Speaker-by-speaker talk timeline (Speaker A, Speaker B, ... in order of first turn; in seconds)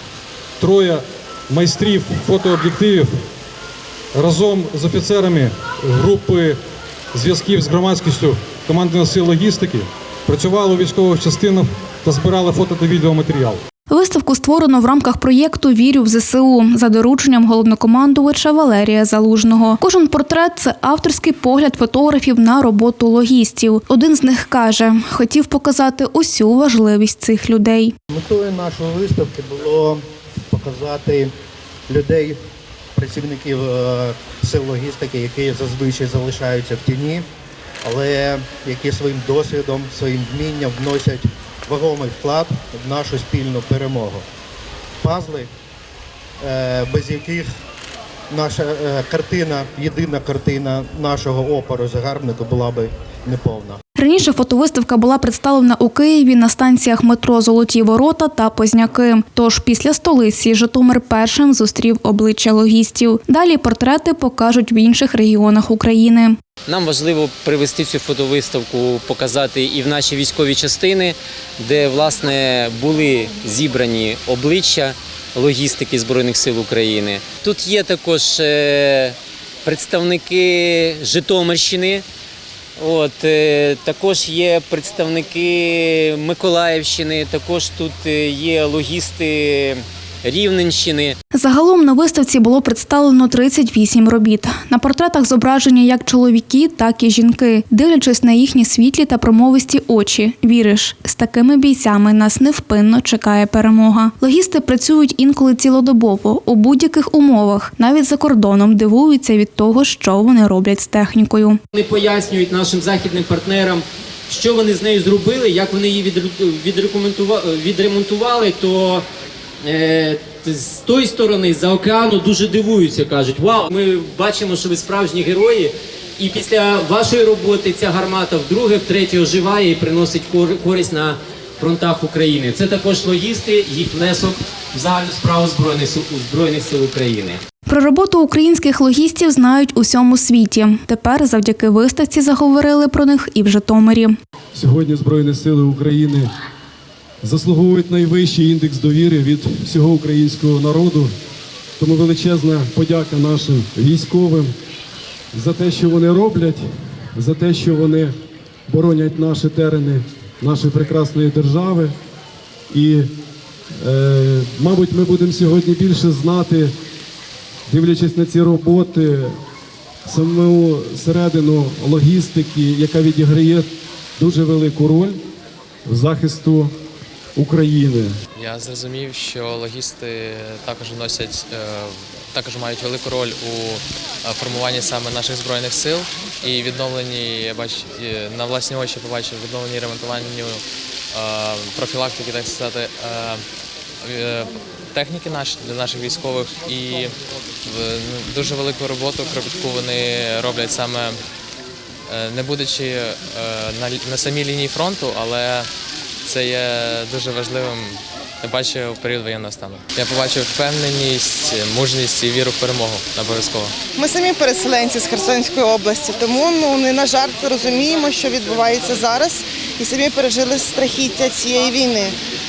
Speaker A: 0.6-3.1, 4.1-6.6, 7.1-13.6
Speaker B: 13.9-27.9, 54.0-66.4, 91.3-111.6, 137.7-144.1
Speaker C: 28.1-30.0, 30.5-31.3, 31.9-32.4, 33.0-37.2, 37.8-44.2, 45.0-45.5, 46.4-47.5, 48.3-53.8
Speaker D: 66.7-82.0, 82.8-91.1, 111.7-119.0, 119.6-137.4
Speaker E: 144.5-146.3, 147.2-151.1, 151.8-154.5, 155.3-158.1, 158.7-161.9, 162.7-163.1, 163.8-166.7, 167.7-169.4, 170.0-175.2, 175.8-176.7, 177.3-178.2
Speaker F: 178.3-190.6, 191.1-193.4, 194.0-197.1, 197.7-201.1, 202.1-205.7, 206.2-213.7
Speaker G: 213.9-222.2